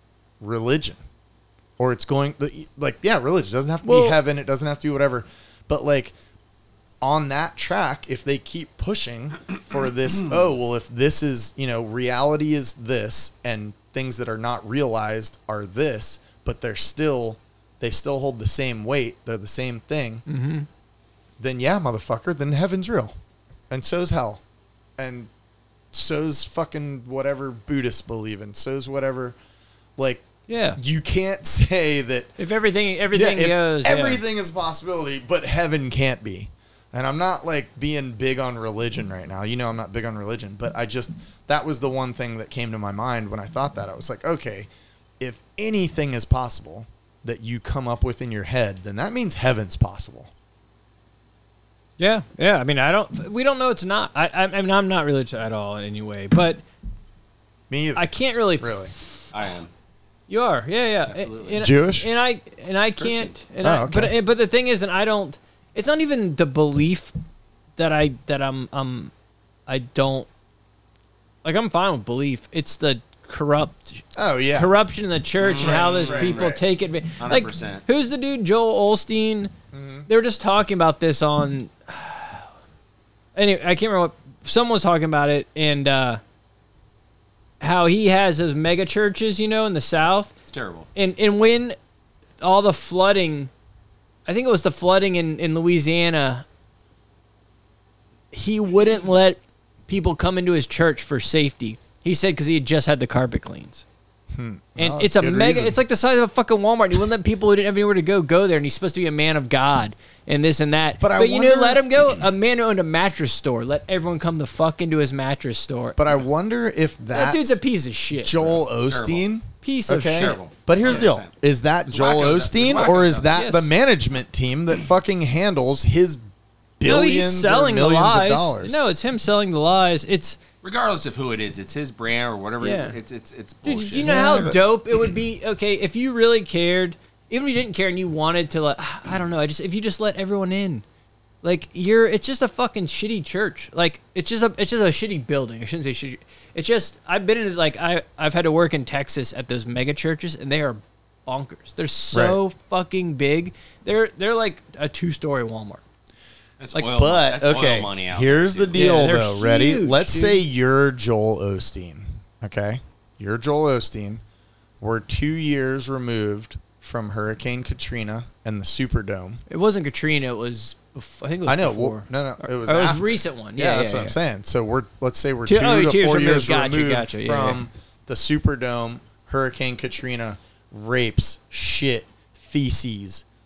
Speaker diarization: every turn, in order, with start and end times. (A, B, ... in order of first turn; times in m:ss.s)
0:00.4-0:01.0 A
0:01.8-0:06.1 A
0:03.8-0:04.2 B
0:07.0-0:20.2 A
0:20.3-0:20.7 B
0:21.4-0:23.1 A
0:23.7-0:24.4 A
0:25.0-0:25.3 A
0:25.9-0:29.4 A
0:30.0-0:32.3 A
0:30.5-0:30.8 B
0:32.4-0:34.2 B
0:33.1-0:44.7 A
0:45.2-0:50.3 A
0:52.0-0:56.6 B
0:57.7-0:58.9 A
0:58.0-0:59.3 B
0:59.3-0:59.7 C
1:00.3-1:07.1 B
1:01.1-1:01.6 C
1:01.6-1:02.1 A
1:03.0-1:03.4 C
1:03.6-1:04.1 A
1:07.8-1:09.1 B
1:09.7-1:10.3 B
1:11.4-1:19.5 B
1:14.1-1:14.7 A
1:15.4-1:16.6 C
1:15.6-1:16.6 A
1:17.2-1:17.8 C
1:19.7-1:20.1 A
1:20.1-1:22.5 B
1:23.4-1:26.2 B
1:27.6-1:30.3 B
1:30.5-1:30.9 C
1:31.0-1:31.8 B
1:32.4-1:33.5 B
1:34.3-1:36.4 B
1:38.3-1:43.8 B
1:44.3-1:45.8 A
1:44.8-1:56.1 B
1:51.0-1:52.3 A
1:56.0-1:57.6 A
1:57.1-1:58.6 B
1:58.2-2:06.2 A
1:58.8-1:59.3 C
1:59.6-2:00.4 B
2:00.1-2:01.3 C
2:01.9-2:03.3 C
2:03.3-2:03.7 B
2:06.8-2:08.8 A
2:06.8-2:10.4 B
2:10.6-2:14.6 C
2:12.6-2:13.0 B
2:13.6-2:20.8 B
2:14.0-2:15.0 A
2:21.4-2:35.8 B
2:32.1-2:32.4 A
2:36.6-2:39.1 C
2:36.7-2:44.2 A
2:38.7-2:40.4 B
2:44.8-2:49.4 A
2:49.5-2:54.2 B
2:51.4-3:03.2 A
2:55.4-2:57.6 B